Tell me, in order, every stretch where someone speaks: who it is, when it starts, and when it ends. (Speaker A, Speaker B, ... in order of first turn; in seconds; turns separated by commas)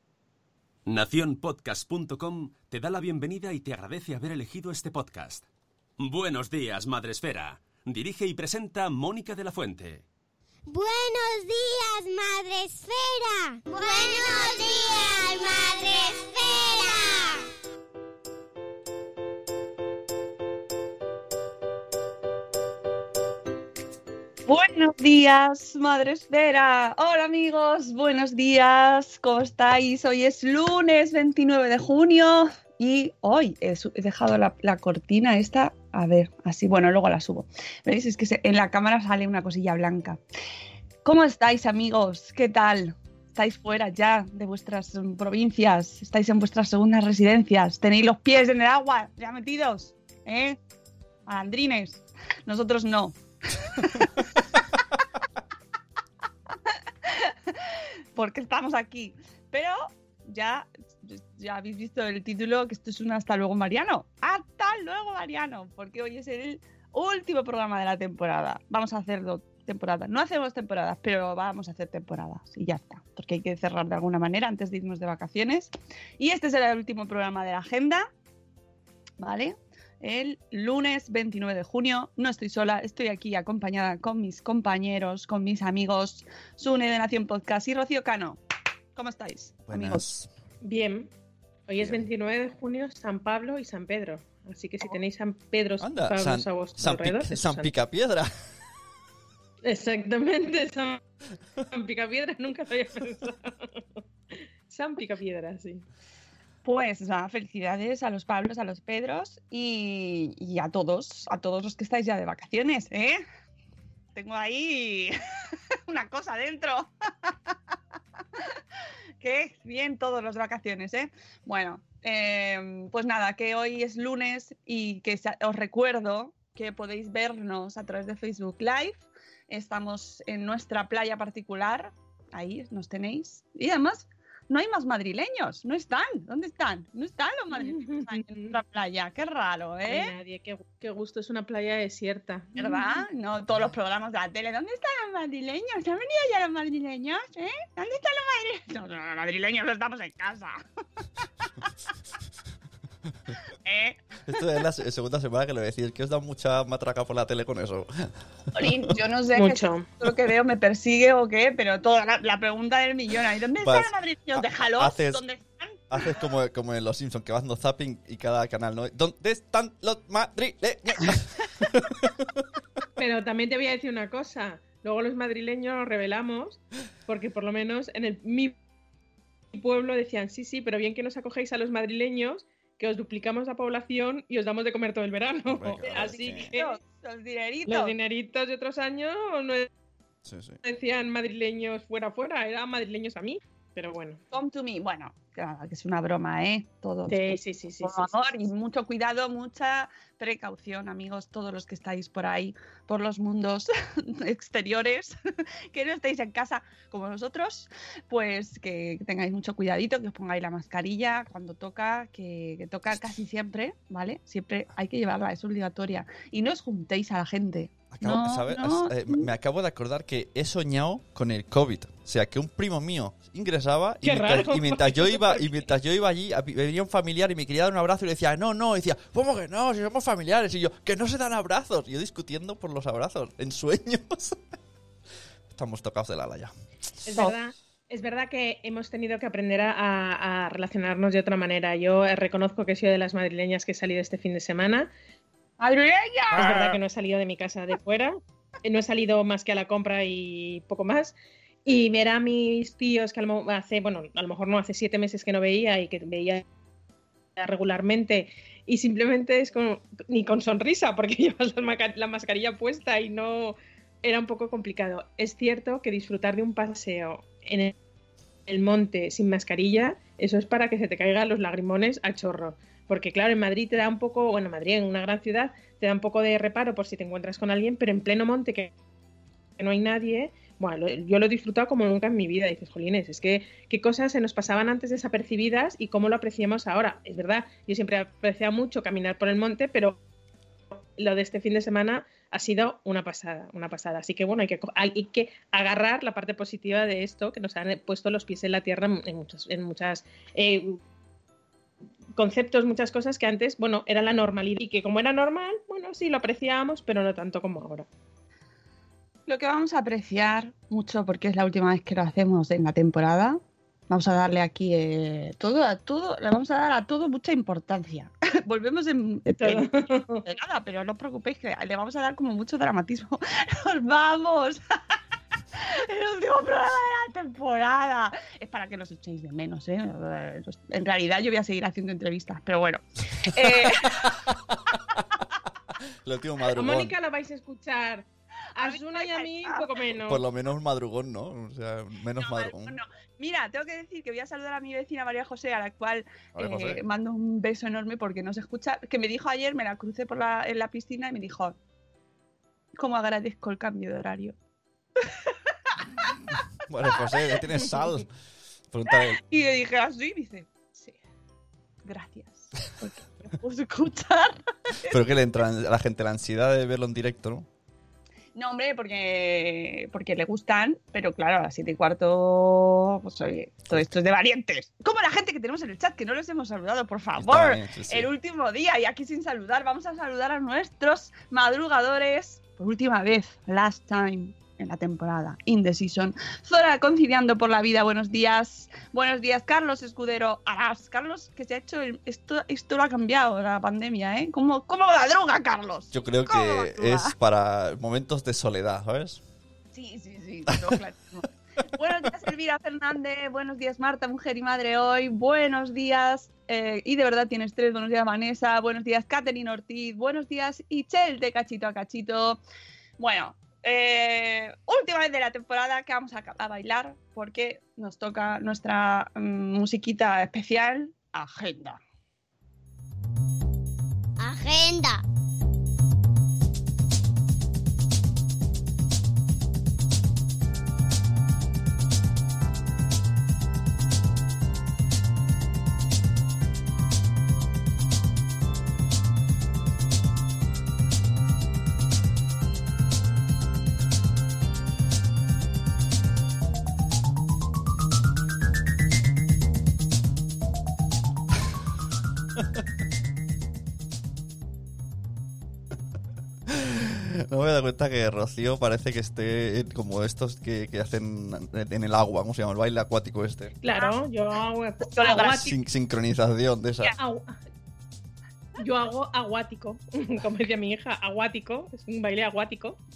Speaker A: 0.9-5.5, Speaker A: 6.0-10.0, Speaker B: 10.7-17.4, Speaker C: 24.5-40.2, Speaker C: 41.0-50.6, Speaker C: 51.3-54.2, Speaker C: 56.7-78.1, Speaker C: 79.2-88.4, Speaker C: 89.0-90.0, Speaker D: 89.7-90.3, Speaker E: 90.6-91.1, Speaker E: 91.7-97.7, Speaker D: 95.8-98.3, Speaker E: 99.6-101.0, Speaker E: 101.7-103.8, Speaker E: 104.7-105.8, Speaker C: 106.6-113.2, Speaker C: 114.2-115.1, Speaker C: 115.9-117.5, Speaker C: 119.2-140.1, Speaker E: 137.5-138.6, Speaker E: 139.9-143.0, Speaker C: 142.6-150.6, Speaker C: 153.7-154.2, Speaker D: 154.3-158.9, Speaker C: 158.6-165.9, Speaker E: 159.3-159.9, Speaker D: 163.6-165.2, Speaker D: 165.9-172.4, Speaker E: 173.0-178.5, Speaker E: 179.5-186.7, Speaker D: 185.5-186.6, Speaker C: 185.9-187.9, Speaker E: 187.7-189.7, Speaker D: 190.2-190.6, Speaker E: 190.6-194.2, Speaker C: 194.3-205.2, Speaker E: 197.1-198.2, Speaker C: 205.7-219.3, Speaker D: 217.9-234.5, Speaker E: 224.0-225.6, Speaker D: 235.5-236.5, Speaker E: 237.1-244.9, Speaker C: 245.6-246.8, Speaker E: 246.3-251.1, Speaker E: 251.7-256.4, Speaker E: 257.4-267.7, Speaker E: 268.5-278.7, Speaker E: 279.6-290.0, Speaker E: 291.0-300.8, Speaker E: 302.2-307.9, Speaker C: 309.3-319.7, Speaker E: 319.4-320.3, Speaker C: 320.2-324.6, Speaker C: 325.6-334.1, Speaker D: 333.5-334.1, Speaker D: 336.1-336.9, Speaker E: 336.5-340.2, Speaker C: 338.6-339.7, Speaker D: 340.1-342.8, Speaker C: 342.2-351.6, Speaker D: 346.3-346.8, Speaker C: 352.8-354.4, Speaker C: 355.0-356.2, Speaker D: 356.7-358.1, Speaker D: 358.7-359.2, Speaker C: 358.9-361.0, Speaker C: 361.9-365.0, Speaker D: 364.9-367.5, Speaker C: 368.4-397.1, Speaker D: 377.2-378.1, Speaker D: 395.9-399.2, Speaker C: 399.7-412.4, Speaker C: 413.0-421.8, Speaker B: 424.2-425.0, Speaker D: 456.5-463.6, Speaker E: 463.6-465.5, Speaker C: 464.9-465.5, Speaker D: 465.1-466.9, Speaker E: 467.0-467.4, Speaker E: 468.6-472.8